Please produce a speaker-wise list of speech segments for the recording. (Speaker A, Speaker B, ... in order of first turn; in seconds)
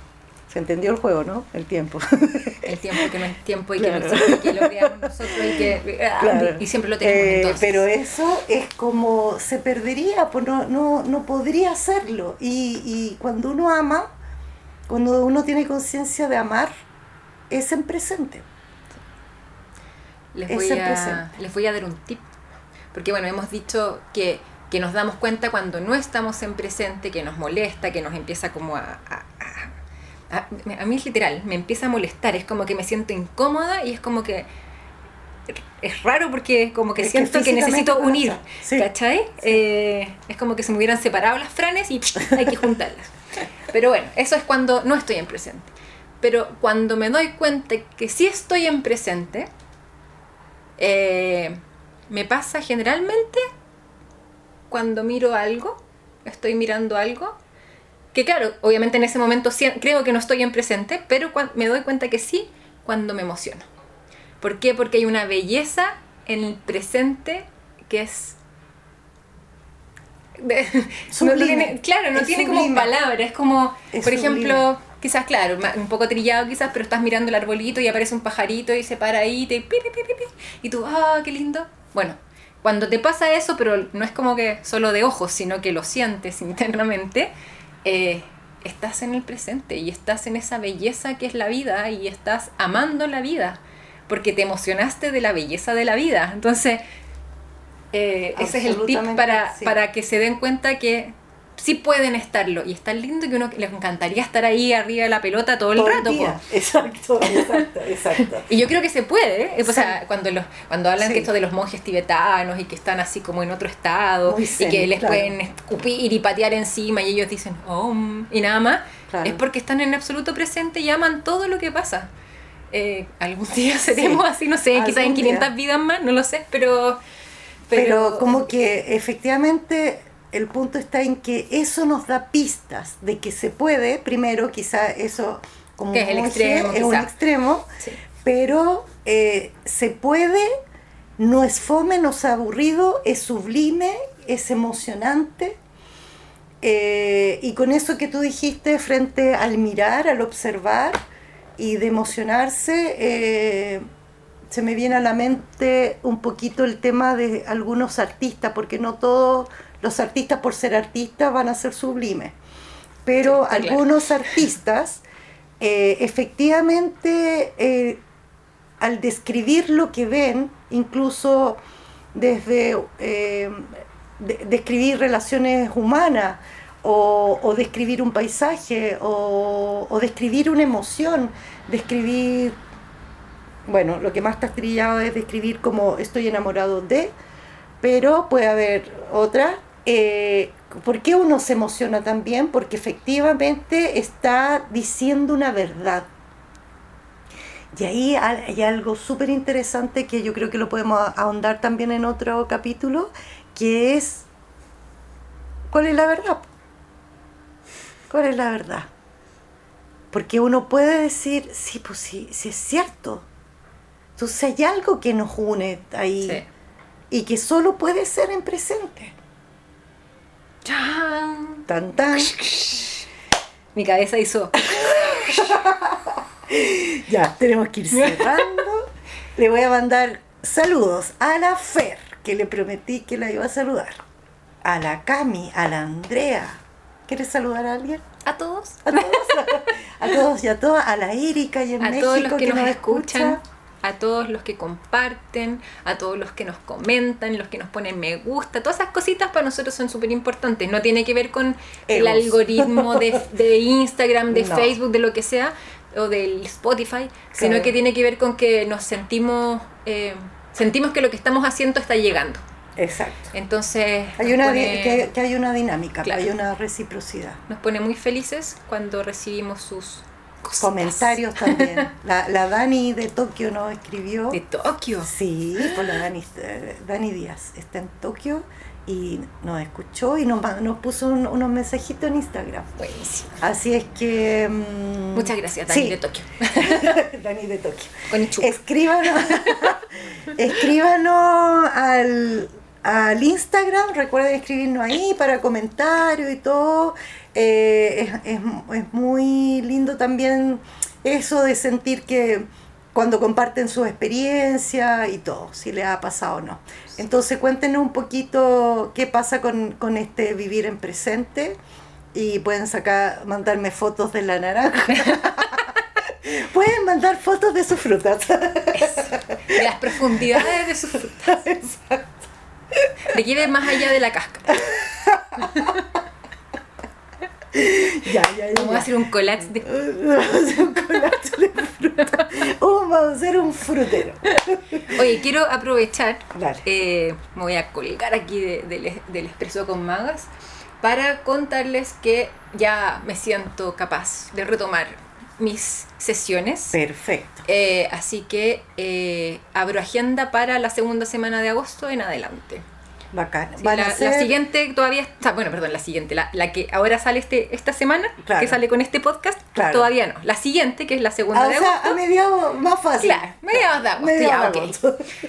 Speaker A: 0.5-3.1, 3.8-5.7, 6.2-14.1, 14.9-16.7, 17.5-18.5, 20.5-21.3, 37.0-38.9, 71.1-72.9, 73.9-74.7, 98.4-99.8, 105.8-108.5, 109.7-110.0, 111.0-111.3, 114.3-115.3, 119.1-119.4, 123.9-125.5, 127.7-137.7, 138.2-140.5, 141.2-145.6, 146.6-151.0, 151.6-153.8, 154.5-162.4, 163.1-165.0, 165.6-168.0, 168.8-171.6, 172.1-182.6, 183.7-187.1, 187.8-196.1, 197.7-204.3, 205.7-206.5, 208.1-208.9, 210.1-213.3, 214.2-216.4, 217.1-219.2, 221.7-222.4, 224.7-234.0, 234.6-238.0, 238.8-243.4, 251.9-253.2, 254.3-254.8, 257.3-257.7, 262.8-263.3, 264.2-267.4, 270.6-274.4, 275.0-282.7, 283.4-286.0, 286.6-311.6, 312.1-323.1, 324.5-325.8, 327.5-328.9, 329.5-335.1, 336.3-336.7, 346.7-347.4, 353.1-354.4, 358.2-358.6, 359.6-359.9, 361.3-365.1
Speaker B: 2.6-7.8, 20.4-22.2, 22.9-29.7, 30.3-34.5, 35.5-43.1, 43.7-45.7, 46.2-49.5, 50.8-53.5, 54.7-57.4, 58.1-63.7, 64.4-68.4, 70.4-87.3, 87.8-96.8, 97.9-106.4, 107.3-107.6, 108.2-122.1, 122.7-127.0, 127.7-128.5, 135.9-137.1, 163.2-164.4, 216.2-216.5, 220.7-223.0, 223.8-225.6, 227.9-228.6, 238.2-239.7, 241.8-262.4, 263.3-265.1, 266.0-266.3, 267.5-271.9, 274.3-275.9, 282.8-283.4, 285.1-287.0, 288.1-289.8, 315.0-315.3, 318.7-321.4, 323.1-324.7, 325.4-325.9, 328.5-329.7, 334.3-340.3, 340.8-346.8, 347.5-352.6, 353.6-362.0, 363.0-364.8